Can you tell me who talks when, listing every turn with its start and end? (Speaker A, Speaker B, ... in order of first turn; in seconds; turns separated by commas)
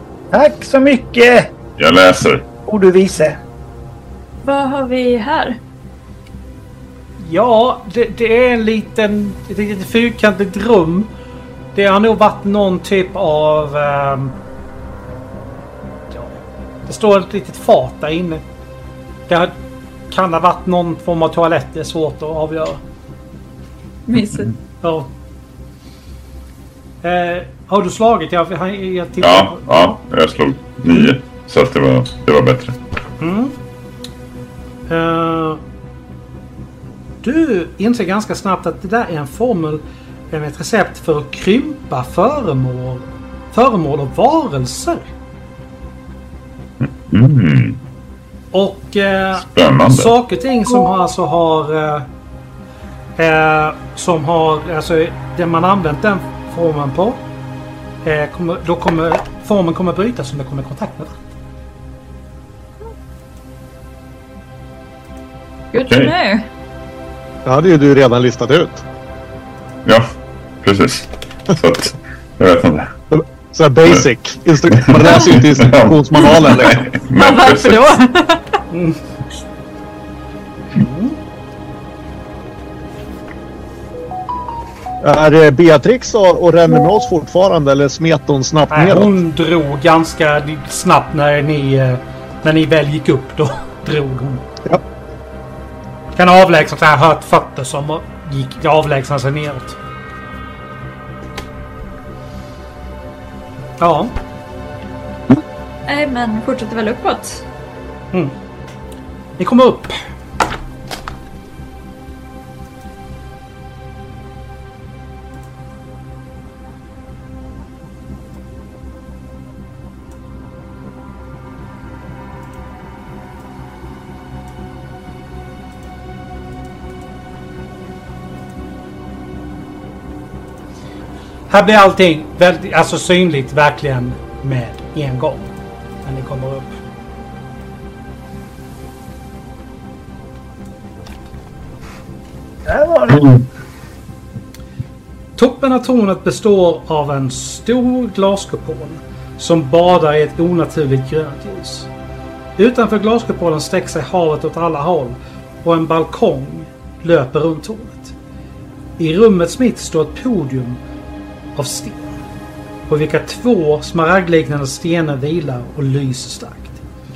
Speaker A: 0.3-1.5, Speaker B: 1.8-2.5, Speaker A: 2.7-3.4, Speaker C: 4.4-5.6, Speaker D: 7.2-11.1, Speaker D: 11.8-14.4, Speaker D: 16.1-18.4, Speaker D: 19.3-19.5, Speaker D: 20.1-22.8, Speaker C: 24.1-24.5, Speaker D: 24.8-25.1, Speaker D: 27.0-30.0, Speaker B: 29.2-32.8, Speaker D: 33.2-33.5, Speaker D: 34.9-35.6, Speaker D: 37.2-45.1, Speaker B: 46.8-47.8, Speaker D: 48.5-52.1, Speaker B: 49.5-50.2, Speaker D: 53.2-57.2, Speaker D: 58.0-61.2, Speaker C: 65.7-66.5, Speaker B: 65.8-66.1, Speaker E: 67.5-68.8, Speaker B: 70.6-73.0, Speaker E: 73.1-76.8, Speaker B: 74.7-78.0, Speaker C: 77.1-78.6, Speaker D: 78.7-79.0, Speaker D: 80.7-81.2, Speaker E: 85.0-89.1, Speaker D: 88.7-94.5, Speaker D: 96.2-99.8, Speaker D: 103.8-104.1, Speaker C: 105.9-107.5, Speaker D: 109.4-110.0, Speaker D: 131.5-135.5, Speaker D: 136.0-136.8, Speaker A: 142.7-143.4, Speaker D: 145.4-151.9, Speaker D: 152.6-158.2, Speaker D: 159.0-160.8, Speaker D: 161.6-162.2, Speaker D: 162.9-166.8